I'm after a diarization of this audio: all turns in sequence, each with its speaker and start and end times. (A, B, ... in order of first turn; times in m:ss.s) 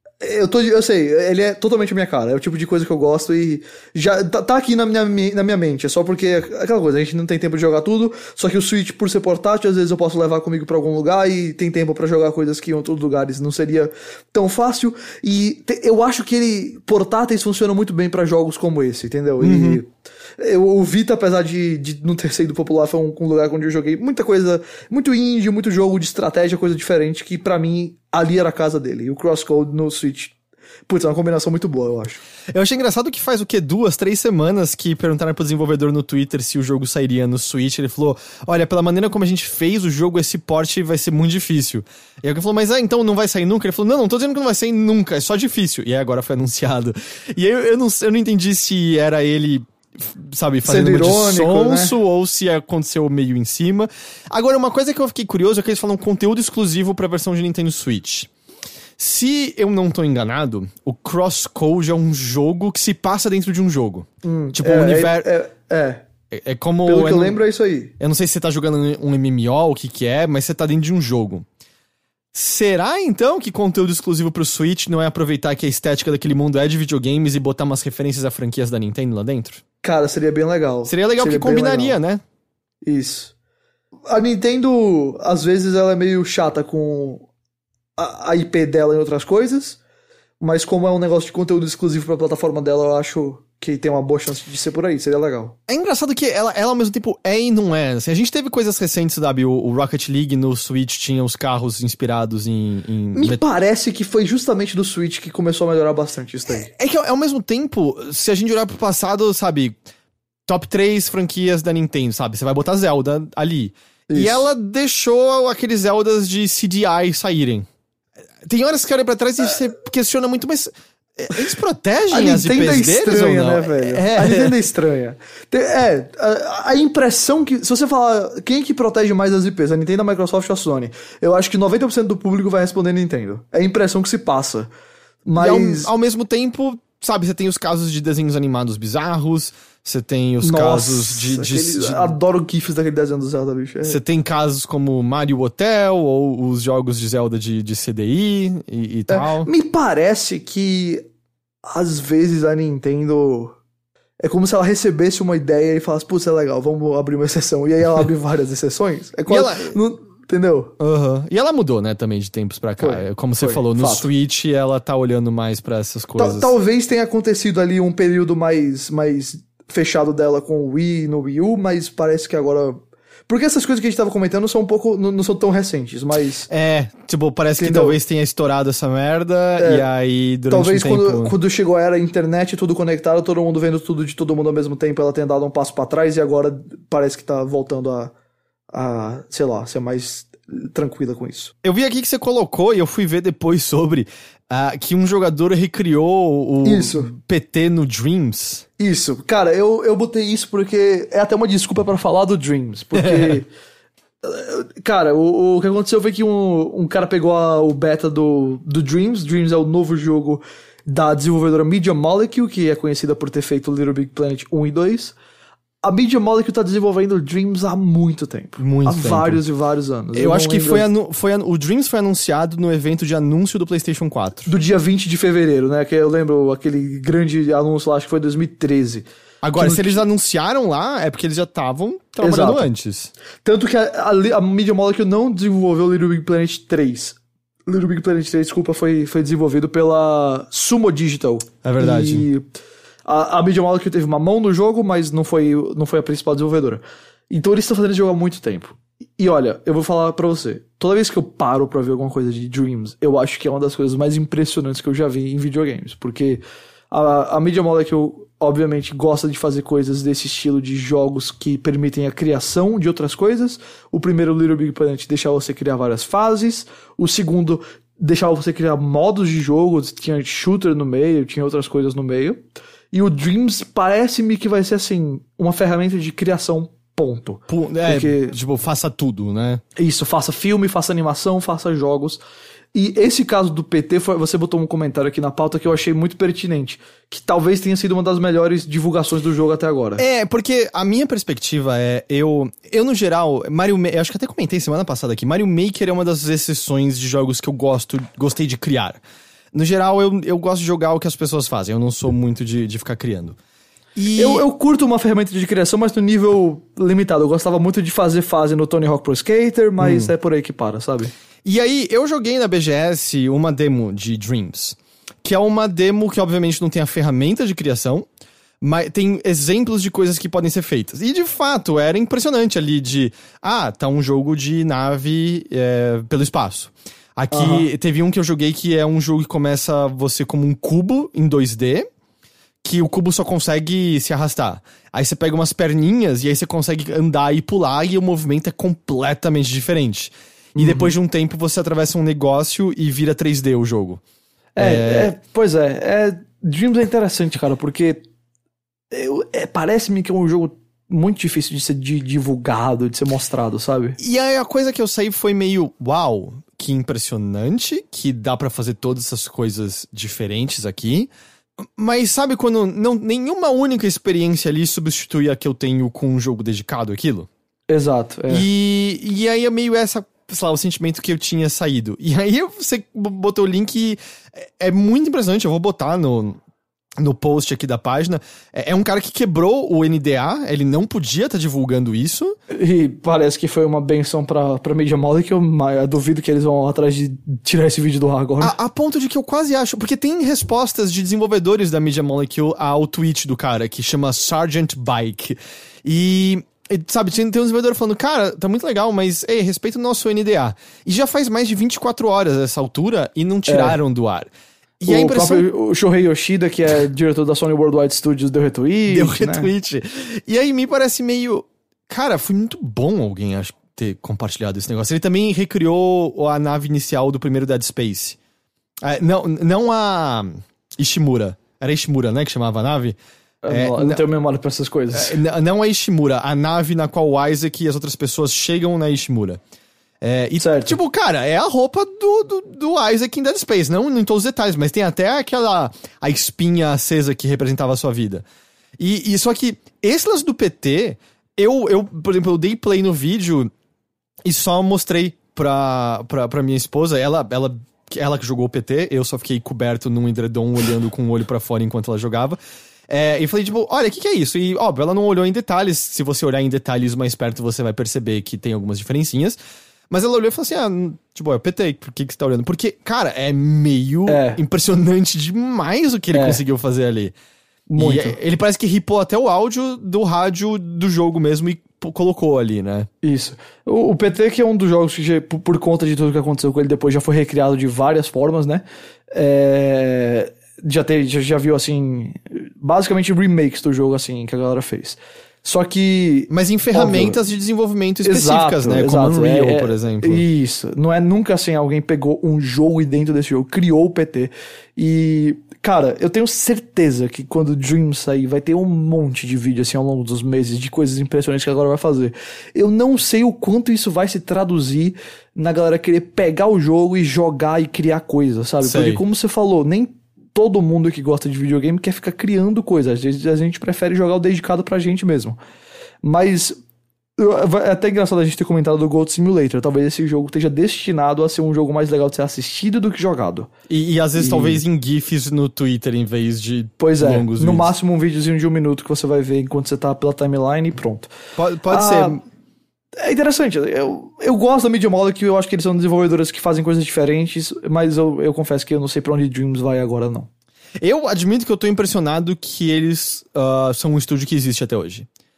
0:00.2-0:30.3 A
0:19.4-0:19.8 B
0:30.9-0:32.2 A
0:32.5-0:58.3 B
0:50.6-0:51.9 A
0:59.0-1:05.3 B
1:04.2-1:06.0 A
1:06.3-1:07.4 B
1:06.8-1:07.9 A
1:08.0-1:11.4 B
1:12.3-1:19.6 B
1:19.8-1:22.0 A
1:20.8-1:22.2 B
1:22.8-1:23.3 A
1:24.1-1:27.2 A
1:28.0-1:29.8 A
1:30.4-1:35.6 A
1:35.7-1:43.4 B
1:43.1-1:46.7 A
1:46.7-1:49.8 B
1:50.5-1:57.6 B
1:54.1-1:54.5 A
1:58.4-2:04.5 B
2:02.1-2:14.7 A
2:15.2-2:15.9 A
2:15.4-2:22.1 B
2:20.4-2:24.0 A
2:23.8-2:29.5 B
2:29.1-2:31.0 A
2:31.6-2:33.5 A
2:34.2-2:40.7 A
2:39.3-2:39.8 B
2:40.8-2:46.5 B
2:42.8-2:44.1 A
2:46.2-2:56.5 A
2:56.5-3:01.3 B
2:57.6-2:58.0 A
2:59.6-2:59.8 A
3:00.5-3:08.1 A
3:08.7-3:11.5 A
3:11.6-3:18.6 B
3:16.6-3:17.1 A
3:18.8-3:23.5 A
3:23.0-3:23.4 B
3:24.2-3:35.1 A
3:35.8-3:40.8 A
3:38.6-3:39.4 B
3:40.1-3:44.5 B
3:44.4-3:50.0 A
3:49.4-3:53.1 B
3:52.2-3:52.7 A
3:53.4-3:57.2 A
3:57.7-4:02.4 A
4:01.6-4:02.3 B
4:03.0-4:38.4 A
4:37.5-4:39.6 B
4:39.8-4:42.2 A
4:42.7-4:50.0 A
4:50.0-4:59.0 B
4:59.5-5:03.4 B
5:04.0-5:04.4 B
5:04.1-5:11.1 A
5:09.8-5:10.1 B
5:11.4-5:18.1 B
5:18.6-5:31.9 B
5:27.3-5:27.7 A
5:32.6-5:44.0 B
5:40.5-5:40.9 A
5:44.6-5:48.0 A
5:44.6-5:45.1 B
5:48.9-5:54.0 A
5:54.0-6:01.1 B
6:01.8-6:07.3 B
6:07.7-6:08.5 A
6:08.3-6:16.4 B
6:17.0-6:22.3 B
6:22.5-6:28.6 A
6:28.4-6:45.4 B
6:43.5-6:43.8 A
6:44.9-6:49.5 A
6:48.9-6:58.2 B
6:58.8-7:03.0 B
7:03.4-7:05.2 A
7:03.5-7:04.0 B
7:04.9-7:09.4 B
7:10.0-7:18.2 B
7:10.4-7:10.8 A
7:18.8-7:23.5 B
7:24.2-7:32.4 B
7:32.9-7:39.4 B
7:39.9-7:47.1 B
7:44.0-7:44.4 A
7:46.1-7:46.4 A
7:47.7-7:48.2 A
7:47.8-7:52.9 B
7:53.0-8:07.2 A
8:06.3-8:10.2 B
8:08.0-8:35.4 A
8:28.6-8:29.0 B
8:36.0-8:36.6 A
8:37.2-8:43.5 A
8:43.7-8:47.7 B
8:44.2-8:44.6 A
8:46.8-8:51.1 A
8:51.4-8:52.2 B
8:51.7-8:52.2 A
8:53.0-9:00.3 A
9:00.8-9:05.1 B